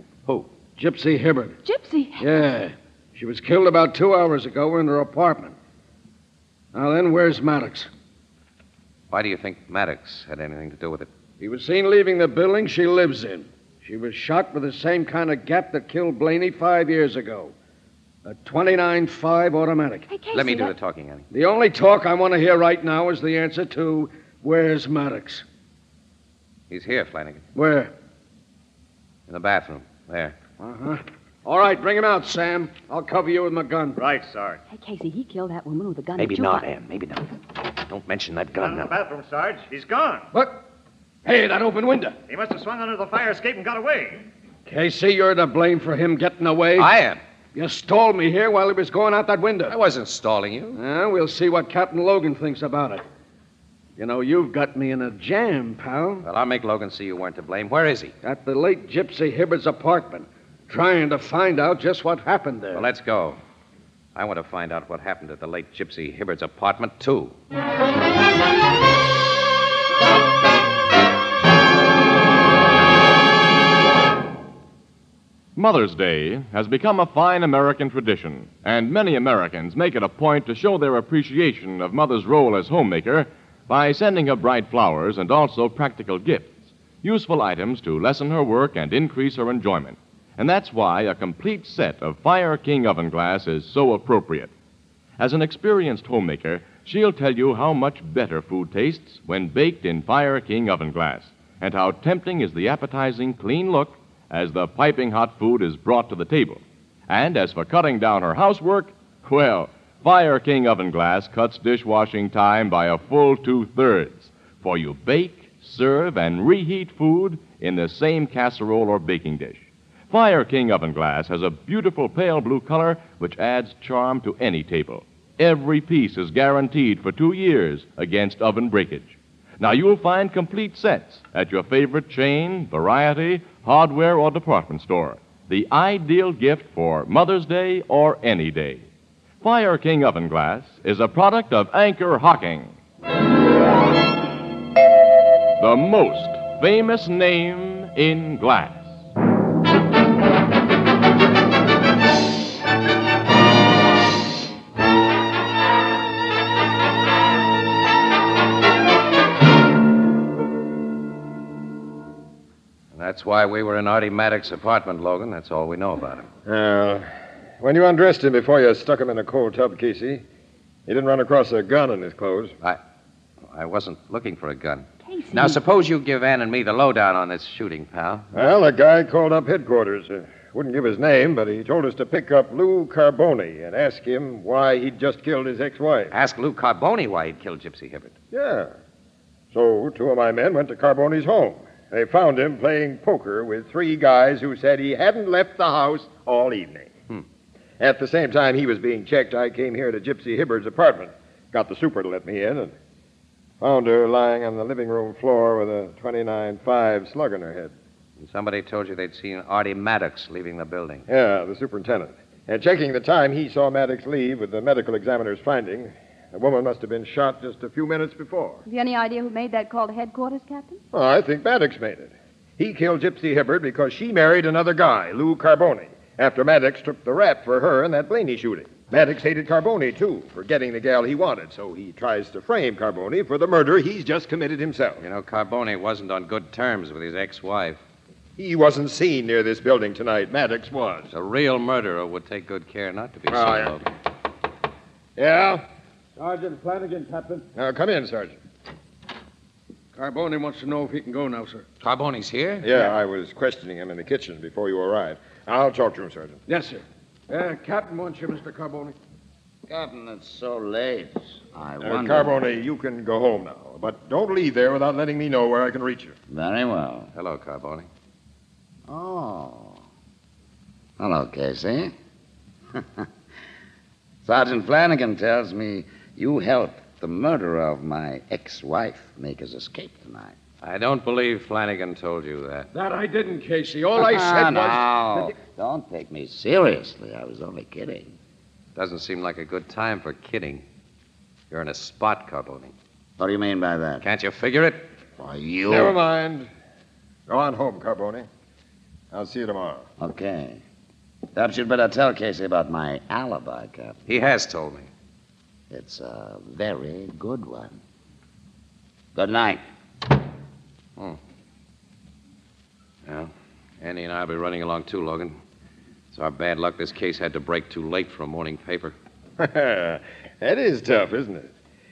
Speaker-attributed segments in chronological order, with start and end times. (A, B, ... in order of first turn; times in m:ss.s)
0:00.8-0:01.6 A
0:01.6-0:02.4 B
0:02.2-0:05.6 A
0:06.7-0:07.9 A
0:09.1-0:11.1 C
0:11.4-0:17.5 A
0:18.2-0:20.1 A
0:20.1-0:20.7 B
0:20.3-0:21.2 C
0:21.3-0:25.4 A
0:26.7-0:27.4 C
0:27.5-0:27.9 A
0:29.3-0:30.4 C
0:30.6-0:34.0 A
0:34.0-0:34.6 D
0:34.7-0:36.7 B
0:36.2-0:39.0 C
0:38.6-0:40.3 D
0:40.3-0:40.6 A
0:41.2-0:42.2 A
0:42.3-0:44.2 D
0:44.7-0:46.9 A
0:46.8-0:47.2 C
0:47.5-0:49.8 A
0:49.7-0:50.8 C
0:50.7-0:53.0 A
0:54.0-0:56.2 A
0:56.2-0:58.1 C
0:58.2-1:02.8 A
1:02.7-1:03.4 C
1:04.1-1:07.4 C
1:15.6-1:34.5 E
1:35.2-2:18.9 E
2:19.4-2:22.8 E
2:25.6-2:29.0 E
2:42.9-2:46.3 C
2:46.5-2:47.1 F
2:47.6-2:50.2 F
2:50.9-2:52.5 F
2:53.5-2:58.3 C
2:55.0-2:55.6 B
2:58.3-3:06.1 F
3:06.1-3:08.1 C
3:08.3-3:08.7 F
3:09.5-3:16.9 F
3:17.8-3:22.7 F
3:23.6-3:27.7 F
3:28.2-3:31.0 C
3:31.1-3:38.6 F
3:38.6-3:40.8 B
3:40.9-3:55.0 F
3:55.0-3:57.8 C
3:58.4-4:01.1 F
4:01.1-4:03.9 C
4:03.3-4:03.8 F
4:05.2-4:05.6 F
4:06.2-4:07.5 A
4:07.5-4:08.4 F
4:09.9-4:11.6 A
4:11.8-4:12.7 C
4:12.6-4:16.4 F
4:16.5-4:19.0 A
4:19.7-4:22.5 G
4:21.8-4:26.1 F
4:26.3-4:27.1 G
4:27.1-4:27.9 C
4:28.9-4:29.8 G
4:31.0-4:31.9 G
4:32.8-4:33.0 G
4:34.2-4:40.4 G
4:40.6-4:42.7 C
4:42.7-4:45.4 A
4:44.0-4:48.1 G
4:48.8-4:50.6 C
4:51.5-4:52.8 C
4:53.2-4:54.0 G
4:54.0-4:54.9 C
4:55.2-4:56.0 G
4:55.7-4:56.5 F
4:57.3-4:58.3 F
4:59.1-4:59.9 F
5:00.0-5:00.6 G
5:01.4-5:04.0 G
5:04.1-5:04.9 C
5:05.7-5:07.8 G
5:09.1-5:09.6 G
5:13.0-5:15.4 C
5:16.1-5:19.0 C
5:19.4-5:21.5 F